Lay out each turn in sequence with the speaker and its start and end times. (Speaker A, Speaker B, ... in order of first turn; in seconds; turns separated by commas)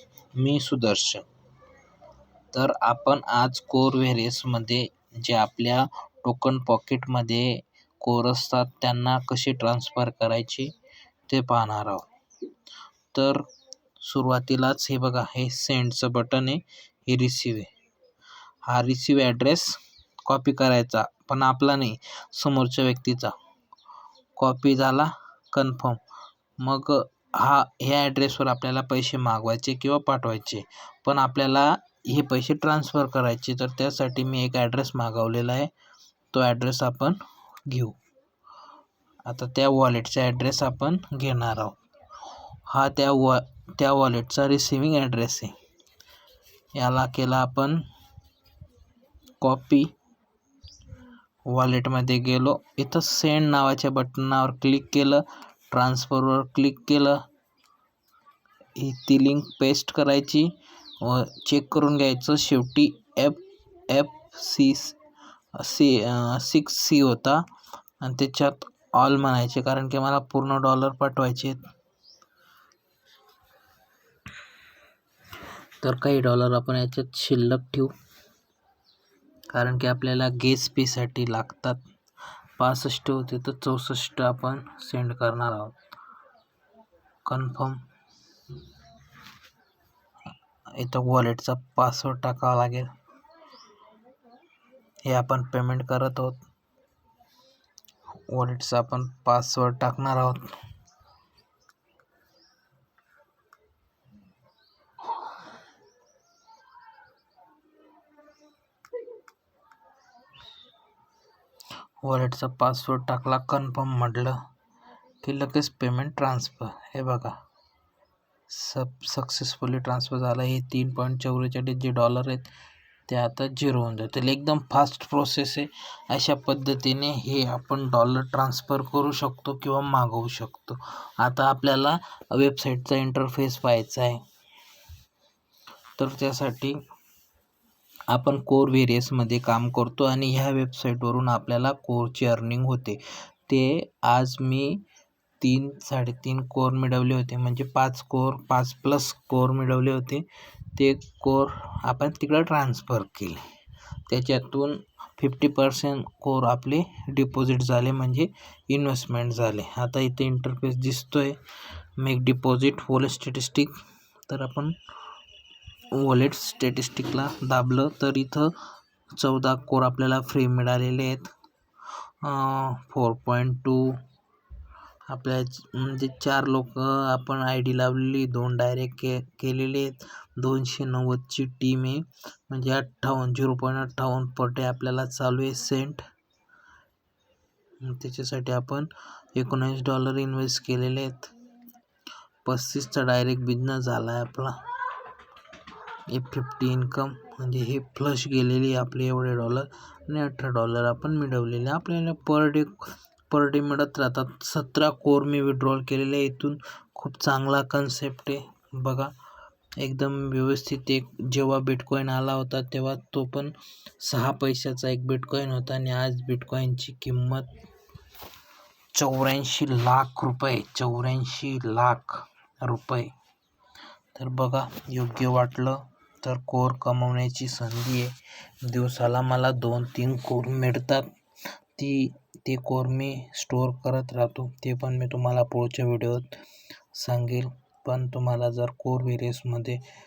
Speaker A: 0.3-1.2, Speaker A: 2.5-10.7, Speaker A: 11.3-12.1, Speaker A: 13.1-13.4, Speaker A: 14.0-17.7, Speaker A: 18.6-23.3, Speaker A: 24.4-26.0, Speaker A: 26.6-35.7, Speaker A: 36.3-38.0, Speaker A: 39.2-41.8, Speaker A: 42.7-45.5, Speaker A: 46.7-47.8, Speaker A: 49.4-49.9, Speaker A: 51.5-57.2, Speaker A: 58.8-65.0, Speaker A: 65.5-67.5, Speaker A: 68.0-71.7, Speaker A: 75.8-77.9, Speaker A: 79.5-81.8, Speaker A: 82.6-85.8, Speaker A: 87.2-87.8, Speaker A: 90.7-92.9, Speaker A: 95.0-96.4, Speaker A: 98.3-100.5, Speaker A: 112.0-114.4, Speaker A: 115.2-117.3, Speaker A: 118.5-122.5, Speaker A: 123.1-134.2, Speaker A: 136.0-136.8, Speaker A: 138.1-144.8, Speaker A: 145.4-153.4, Speaker A: 154.1-161.4, Speaker A: 162.0-163.7, Speaker A: 164.3-164.7, Speaker A: 165.9-168.5, Speaker A: 169.2-171.3, Speaker A: 172.2-174.0, Speaker A: 175.1-186.0, Speaker A: 187.8-191.3, Speaker A: 192.4-194.6, Speaker A: 196.1-209.1, Speaker A: 209.8-217.5, Speaker A: 218.9-223.1, Speaker A: 224.1-231.1, Speaker A: 231.7-236.3, Speaker A: 236.9-239.8